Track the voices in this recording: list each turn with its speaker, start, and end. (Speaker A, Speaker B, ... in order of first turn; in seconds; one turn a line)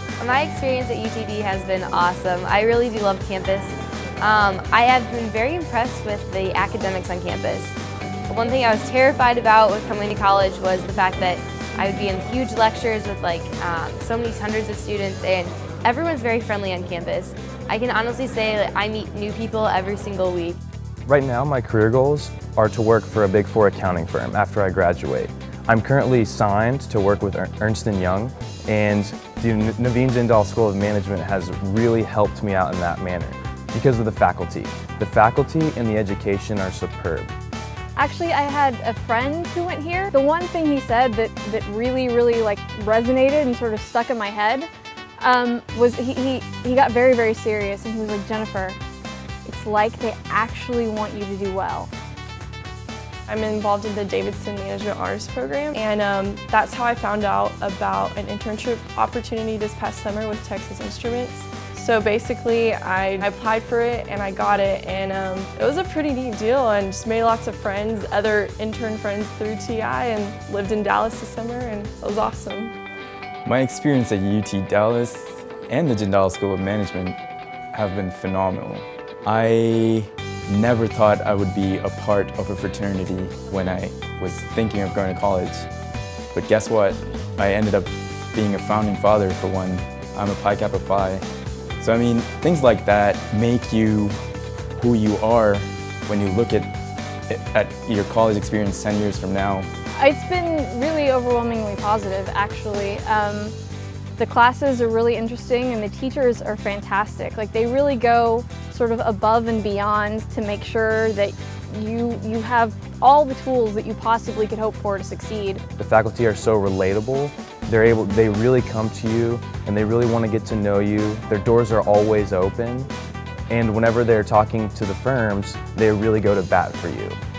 Speaker A: 0.2-7.8
Speaker A: 8.3-20.6
Speaker B: 21.1-37.3
Speaker C: 38.0-44.7
Speaker C: 45.2-48.8
Speaker C: 49.4-51.9
Speaker D: 53.3-72.7
Speaker E: 73.4-77.2
Speaker E: 77.7-85.7
Speaker E: 86.3-91.2
Speaker E: 91.8-94.2
Speaker E: 94.8-96.7
Speaker E: 97.3-99.7
Speaker C: 100.0-103.5
Speaker C: 104.2-115.6
Speaker B: 115.8-122.9
Speaker B: 123.5-127.2